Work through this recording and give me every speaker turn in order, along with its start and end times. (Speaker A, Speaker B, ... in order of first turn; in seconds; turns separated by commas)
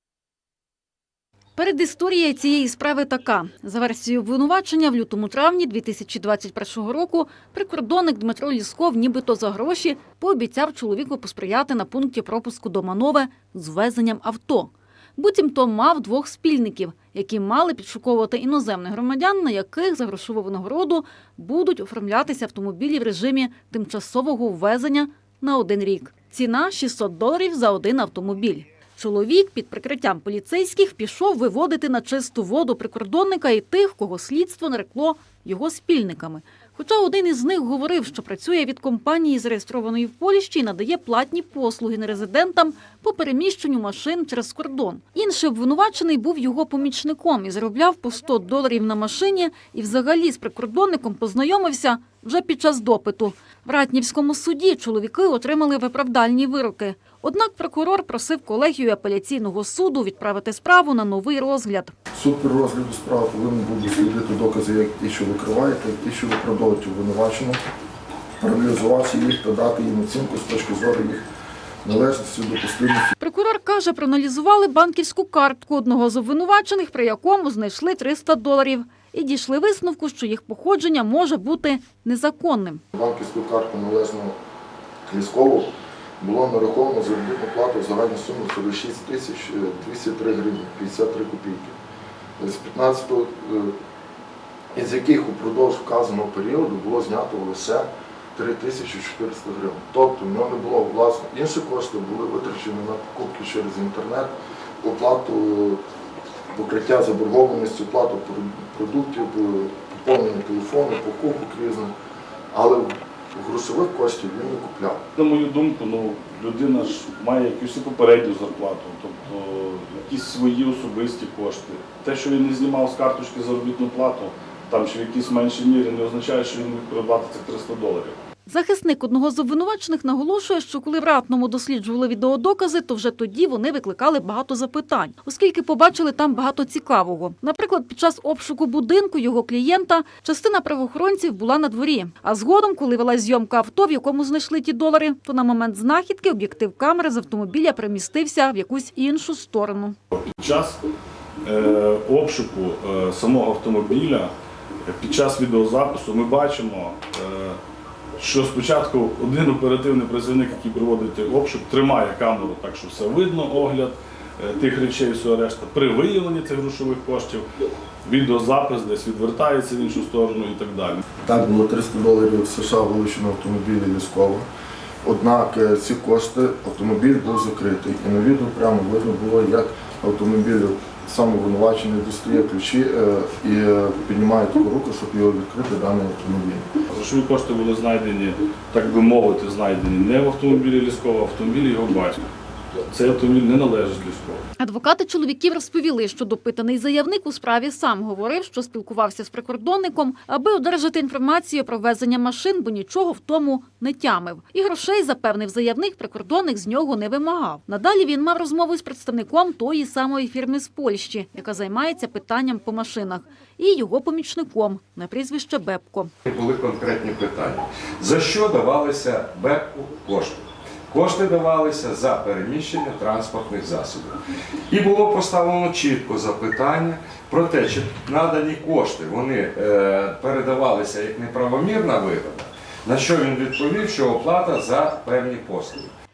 Speaker A: 1.6-61.9, Speaker B: 62.1-67.6, Speaker B: 68.4-71.2, Speaker B: 71.8-73.1, Speaker A: 73.2-82.8, Speaker B: 82.9-84.4, Speaker B: 85.1-91.8, Speaker B: 92.4-93.7, Speaker B: 94.8-105.8, Speaker B: 106.5-111.9, Speaker B: 112.5-115.0, Speaker C: 115.2-128.2, Speaker A: 128.5-150.0, Speaker C: 150.1-150.8, Speaker C: 151.4-154.3, Speaker C: 154.8-157.6, Speaker C: 158.2-167.4, Speaker C: 168.1-171.0, Speaker B: 171.2-174.5, Speaker B: 175.0-186.7, Speaker C: 186.9-192.2, Speaker C: 192.9-194.4, Speaker A: 194.6-216.1, Speaker D: 216.3-224.2, Speaker D: 224.7-235.9